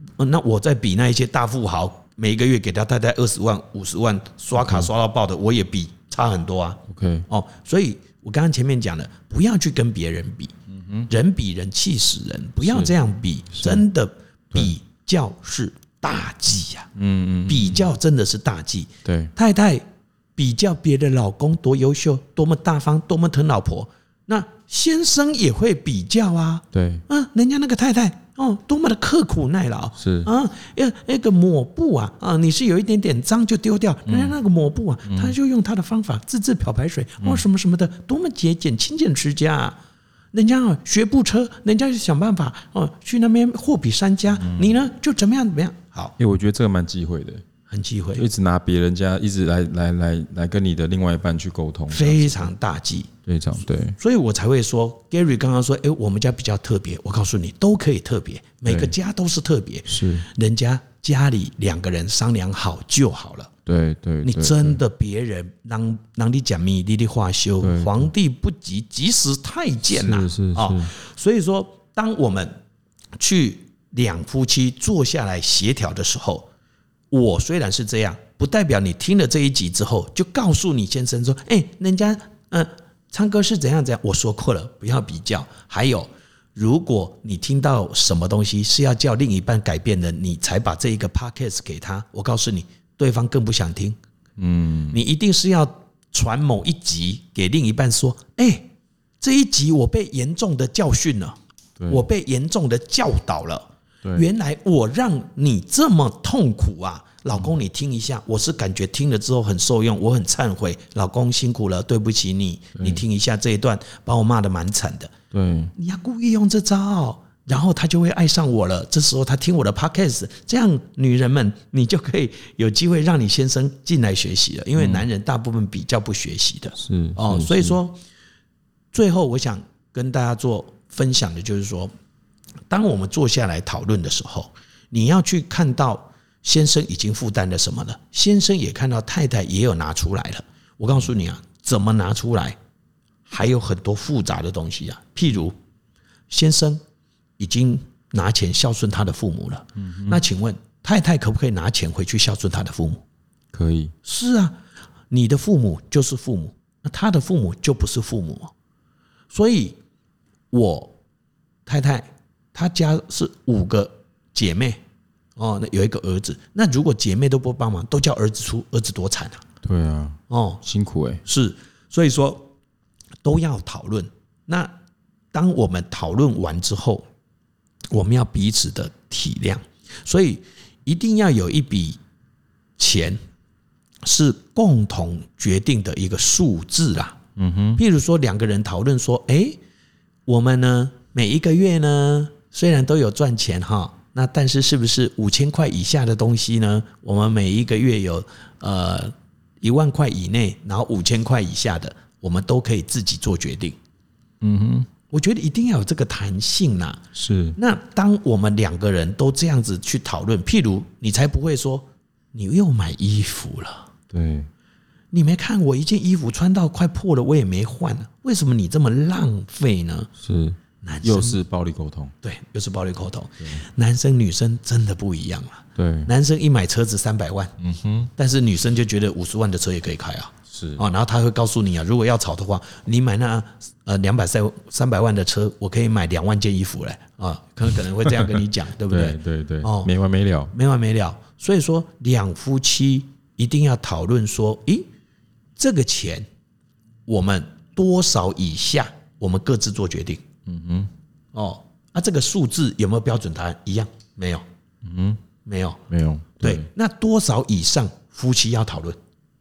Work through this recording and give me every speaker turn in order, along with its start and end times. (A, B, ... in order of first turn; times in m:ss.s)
0:00.2-0:10.5 A
0:04.6-0:04.9 B
0:06.9-0:07.3 B
0:10.7-0:11.1 B
0:11.1-0:16.9 A
0:12.6-0:12.9 B
0:13.5-0:13.8 B
0:17.0-0:17.8 B
0:17.5-0:19.8 A
0:19.0-0:19.3 B
0:20.4-0:39.8 A
0:26.7-0:27.0 B
0:30.0-0:30.3 B
0:34.1-0:34.3 B
0:35.1-0:35.4 B
0:40.3-0:46.1 A
0:46.2-0:47.4 B
0:47.7-0:48.2 A
0:48.1-0:52.5 B
0:51.9-0:53.1 A
0:53.2-0:54.0 B
0:54.0-1:03.5 A
0:58.6-0:58.9 B
0:59.9-1:00.3 B
1:03.7-1:04.8 B
1:04.2-1:12.6 A
1:07.6-1:08.1 B
1:09.8-1:10.9 B
1:13.2-1:16.5 A
1:17.1-1:34.0 A
1:34.4-1:35.0 B
1:34.9-1:41.4 A
1:41.9-1:55.1 A
1:55.3-1:55.7 B
1:55.8-2:08.0 A
2:04.8-2:05.0 B
2:06.8-2:07.8 B
2:08.9-2:11.9 A
2:12.7-2:22.6 A
2:23.3-2:25.5 A
2:26.3-2:26.8 A
2:27.4-2:33.0 A
2:29.8-2:30.2 B
2:33.5-2:33.9 B
2:34.0-2:34.6 A
2:35.1-2:38.5 A
2:39.3-2:39.8 A
2:40.5-2:40.9 A
2:41.6-2:44.8 A
2:45.4-2:49.4 A
2:49.6-2:51.2 B
2:50.3-2:50.6 A
2:51.2-2:52.5 A
2:53.2-2:54.7 A
2:55.3-2:57.0 A
2:57.9-3:02.0 A
3:02.8-3:03.2 A
3:04.0-3:07.2 A
3:07.4-3:07.8 B
3:07.8-3:09.6 A
3:10.3-3:23.8 A
3:24.4-3:24.9 B
3:25.1-3:27.0 A
3:27.1-3:27.6 B
3:27.6-3:33.9 A
3:34.1-3:34.5 B
3:35.1-3:40.1 A
3:40.2-3:42.1 B
3:40.8-3:41.4 A
3:42.2-3:47.5 A
3:45.8-3:46.1 B
3:47.6-3:48.1 B
3:48.2-3:59.9 A
3:50.5-3:50.8 B
3:58.0-4:00.5 B
4:00.5-4:04.9 A
4:05.6-4:06.2 A
4:07.1-4:10.2 A
4:10.4-4:10.9 B
4:11.3-4:14.4 A
4:14.8-4:15.2 B
4:15.4-4:15.8 A
4:15.9-4:16.7 B
4:16.4-4:19.0 A